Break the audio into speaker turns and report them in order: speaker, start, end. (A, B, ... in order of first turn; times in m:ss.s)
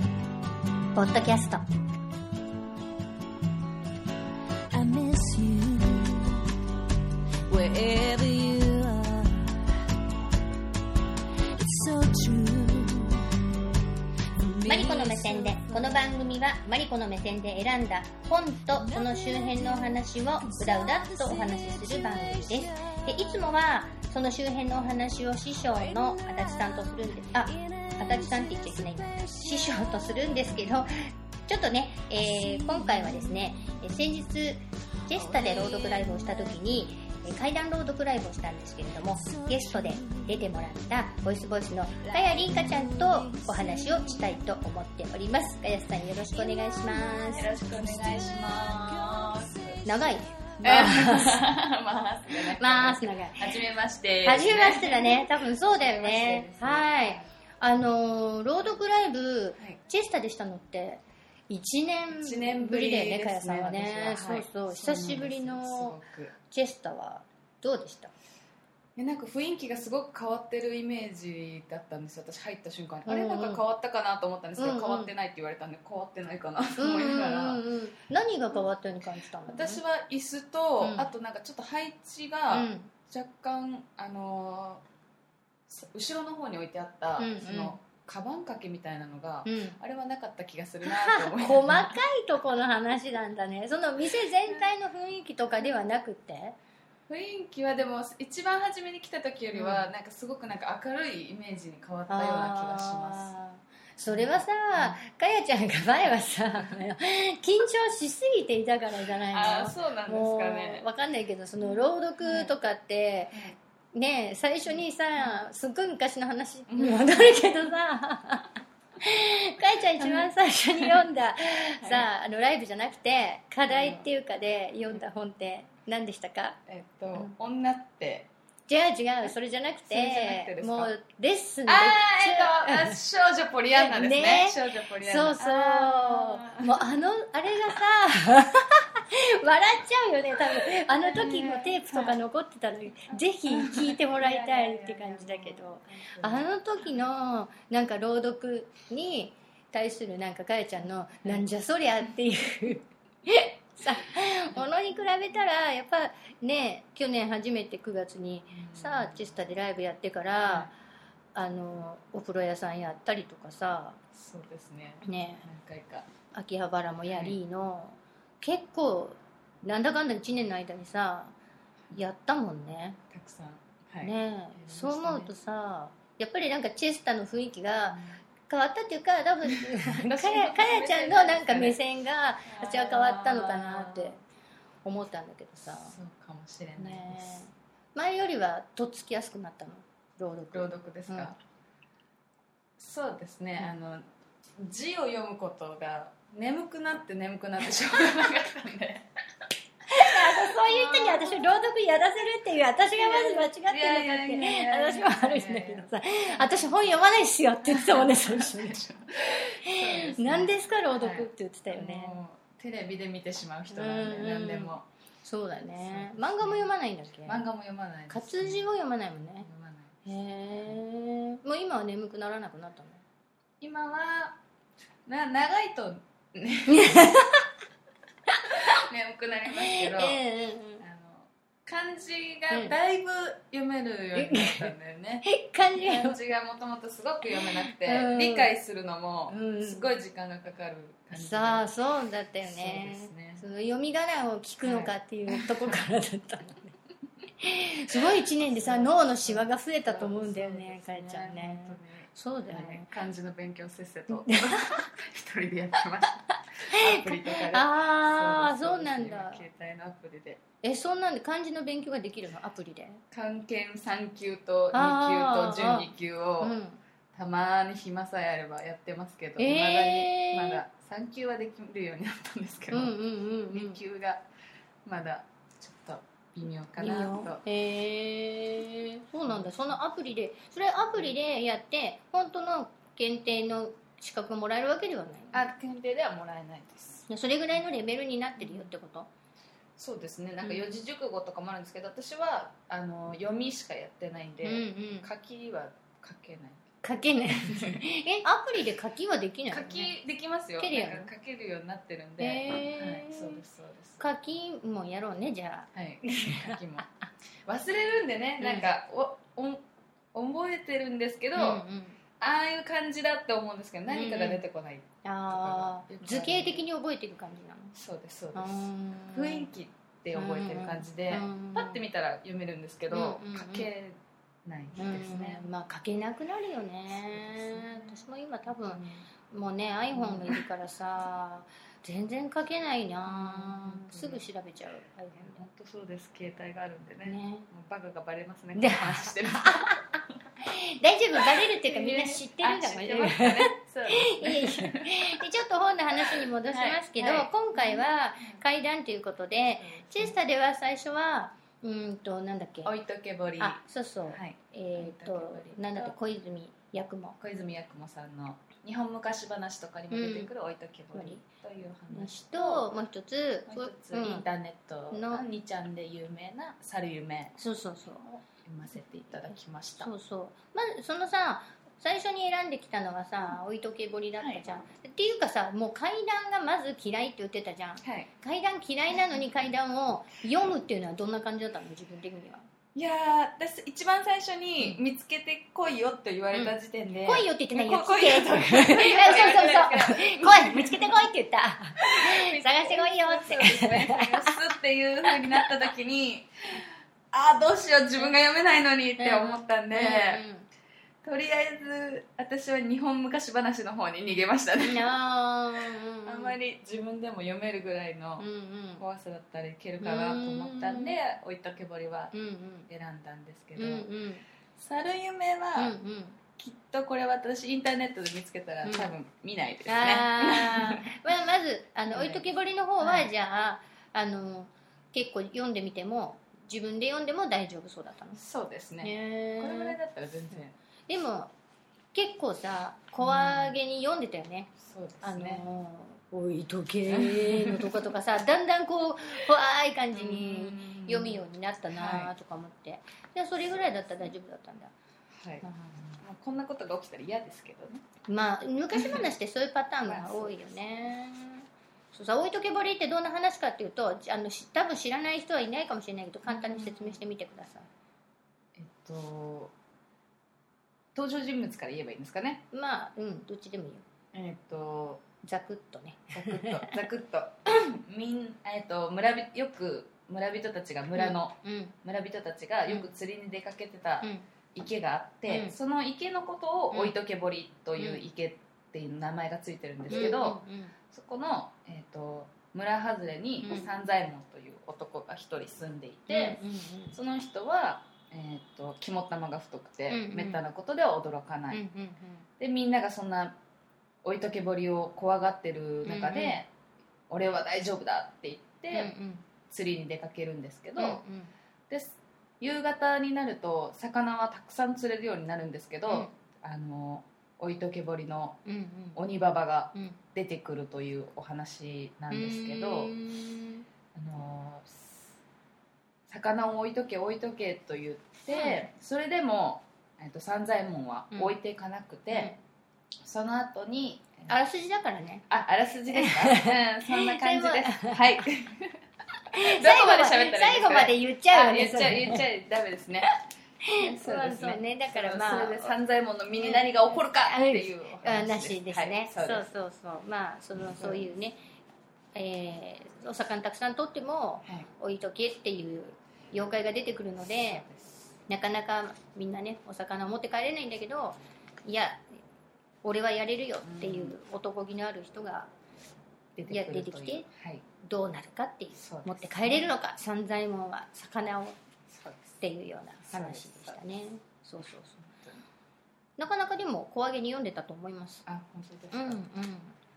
0:00.9-0:01.7 A
0:04.7-0:06.4 B
0:07.5-0:09.6 B
0:11.6-0:13.3 B
0:14.3-0:16.3 B
0:14.6-0:47.5 A
0:18.7-0:23.4 B
0:25.5-0:30.9 B
0:32.2-0:33.8 B
0:35.1-0:36.8 B
0:39.0-0:40.6 B
0:42.0-0:44.4 B
0:46.0-0:50.8 B
0:47.3-0:49.8 C
0:49.8-0:51.4 A
0:50.6-0:57.3 C
0:52.3-0:53.6 A
0:54.2-1:06.0 A
1:02.1-1:06.3 C
1:06.5-1:08.1 A
1:09.0-1:17.6 C
1:13.1-1:13.6 A
1:14.6-1:15.1 A
1:16.8-1:19.8 A
1:19.5-1:24.8 C
1:20.8-1:21.1 A
1:22.5-1:22.9 A
1:25.7-1:32.0 C
1:27.2-1:27.8 A
1:29.4-1:29.8 A
1:30.8-1:36.6 A
1:37.1-1:43.3 C
1:39.5-1:39.9 A
1:42.1-1:53.4 A
1:44.1-1:45.0 C
1:49.3-1:50.8 C
1:51.6-1:52.5 C
1:53.9-2:06.6 A
1:54.6-1:55.4 C
1:56.7-1:57.5 C
2:00.0-2:01.0 C
2:01.8-2:02.1 C
2:03.7-2:04.1 C
2:06.7-2:08.3 C
2:08.7-2:12.9 A
2:09.8-2:10.9 C
2:11.6-2:16.9 C
2:13.7-2:40.7 A
2:20.6-2:22.2 C
2:23.1-2:27.1 C
2:38.5-2:39.2 C
2:40.4-2:40.7 C
2:41.3-2:44.0 A
2:44.1-2:46.1 C
2:45.0-2:45.5 A
2:46.3-2:51.3 A
2:47.1-2:47.4 C
2:51.9-2:53.0 A
2:53.1-2:55.3 C
2:54.0-3:04.2 A
2:57.9-2:58.2 C
2:59.5-3:01.8 C
3:02.4-3:04.2 C
3:04.8-3:06.0 A
3:05.7-3:07.4 C
3:06.8-3:11.3 A
3:10.5-3:11.4 C
3:12.8-3:14.0 C
3:14.6-3:19.1 C
3:19.9-3:28.8 A
3:19.9-3:21.7 C
3:22.9-3:26.9 C
3:27.6-3:34.8 C
3:29.6-3:32.2 A
3:33.7-3:37.4 A
3:35.7-3:36.7 C
3:37.2-3:38.6 C
3:38.1-3:39.5 A
3:39.4-3:40.0 C
3:40.0-3:43.0 A
3:43.6-3:44.4 C
3:45.0-3:47.0 C
3:46.7-3:47.4 A
3:48.3-3:48.8 A
3:48.5-3:50.2 C
3:49.5-3:50.8 A
3:50.8-4:01.7 C
3:52.5-3:52.7 A
3:54.2-3:54.7 A
3:55.2-3:56.2 A
3:57.3-3:58.5 A
3:59.3-3:59.9 A
4:01.1-4:06.7 A
4:02.4-4:03.4 C
4:04.6-4:05.8 C
4:07.4-4:12.9 A
4:07.9-4:20.4 C
4:14.1-4:14.8 A
4:16.7-4:19.4 A
4:20.6-4:23.0 A
4:23.1-4:26.5 C
4:24.7-4:26.8 A
4:27.1-4:32.9 C
4:29.4-4:30.6 A
4:32.7-4:33.8 A
4:33.5-4:34.2 C
4:34.8-4:37.4 C
4:36.8-4:45.5 A
4:39.3-4:39.8 C
4:45.3-4:47.1 C
4:47.1-4:49.1 A
4:48.4-4:48.7 C
4:49.8-4:56.7 C
4:50.4-4:50.8 A
4:54.4-4:55.1 A
4:56.8-4:59.9 A
4:57.4-4:57.8 C
4:59.5-5:04.0 C
5:00.6-5:01.1 A
5:02.2-5:03.4 A
5:04.0-5:07.1 A
5:05.7-5:06.8 C
5:07.4-5:11.6 C
5:08.4-5:08.7 A
5:11.4-5:12.0 A
5:12.2-5:16.7 C
5:13.9-5:14.4 A
5:15.0-5:17.8 A
5:17.7-5:25.5 C
5:18.3-5:19.5 A
5:20.1-5:21.8 A
5:22.9-5:23.7 A
5:24.8-5:35.4 A
5:26.9-5:29.1 C
5:29.9-5:30.4 C
5:33.0-5:34.2 C
5:35.2-5:40.2 C
5:37.0-5:37.5 A
5:38.6-5:39.8 A
5:40.4-5:52.7 A
5:41.2-5:45.2 C
5:45.9-5:48.4 C
5:49.6-5:50.2 C
5:52.6-5:53.6 C
5:53.4-5:57.2 A
5:54.1-5:56.0 C
5:57.2-6:02.7 C
5:59.9-6:00.3 A
6:00.9-6:01.2 A
6:01.9-6:04.2 A
6:03.5-6:07.3 C
6:04.9-6:05.2 A
6:07.4-6:08.0 A
6:08.0-6:09.9 C
6:09.8-6:22.4 A
6:14.2-6:14.4 C
6:17.8-6:18.1 C
6:22.7-6:31.0 C
6:26.3-6:34.4 A
6:31.8-6:40.2 C
6:35.1-6:35.5 A
6:39.0-6:40.5 A
6:41.0-6:44.9 C
6:44.6-6:46.4 A
6:46.0-6:48.3 C
6:48.2-6:48.8 A
6:48.8-6:52.1 C
6:49.8-6:51.0 A
6:52.1-6:52.7 A
6:52.7-6:53.9 C
6:53.6-6:54.2 A
6:54.6-6:55.8 C
6:55.6-6:56.2 A
6:56.4-7:01.0 C
6:58.6-6:58.9 A
6:59.7-7:08.2 A
7:01.9-7:02.3 C
7:02.8-7:03.1 C
7:08.2-7:10.6 C
7:08.8-7:09.8 A
7:10.9-7:11.3 A
7:11.9-7:24.7 A
7:13.0-7:13.6 C
7:14.6-7:15.4 C
7:16.9-7:17.9 C
7:19.9-7:22.1 C
7:25.1-7:27.8 C
7:25.4-7:25.8 A
7:28.1-7:37.7 A
7:28.7-7:29.1 C
7:29.8-7:30.7 C
7:36.2-7:37.0 C
7:38.5-7:39.5 C
7:40.9-7:42.4 C
7:42.5-7:43.8 A
7:44.1-7:45.0 C
7:45.2-7:46.8 A
7:46.1-8:00.4 C
7:51.0-7:51.7 A
7:52.7-7:52.9 A
7:55.3-7:55.5 A
7:59.9-8:00.7 A
8:00.9-8:06.4 C
8:03.4-8:03.7 A
8:06.1-8:07.0 A
8:06.9-8:11.6 C
8:09.9-8:10.4 A
8:11.5-8:12.2 A
8:12.4-8:13.4 C
8:14.0-8:16.5 C
8:15.8-8:16.4 A
8:17.1-8:18.9 C
8:18.7-8:19.2 A
8:19.5-8:21.0 C
8:20.8-8:21.3 A
8:21.7-8:28.4 C
8:25.9-8:26.1 A
8:28.4-8:29.0 A
8:28.9-8:32.9 C
8:29.7-8:30.0 A
8:32.1-8:33.6 A
8:33.9-8:35.2 C
8:36.1-8:42.3 C
8:38.3-8:38.7 A
8:42.1-8:42.4 A
8:43.0-8:44.3 C
8:44.3-8:45.2 A
8:45.3-8:48.8 C
8:45.9-8:48.3 A
8:49.3-8:52.2 A
8:49.3-8:53.1 C
8:53.6-8:55.8 A
8:53.8-8:59.5 C
8:56.3-9:01.4 A
9:00.6-9:01.1 C
9:02.1-9:07.6 A
9:07.5-9:08.1 C
9:08.3-9:12.0 A
9:12.8-9:15.5 A
9:13.6-9:14.2 C
9:16.4-9:17.6 C
9:16.5-9:17.2 A
9:17.8-9:21.6 A
9:18.8-9:19.7 C
9:21.9-9:22.4 C
9:22.4-9:25.0 A
9:23.0-9:23.8 C
9:25.0-9:25.4 C
9:26.2-9:28.2 A
9:28.2-9:29.3 C
9:28.9-9:29.8 A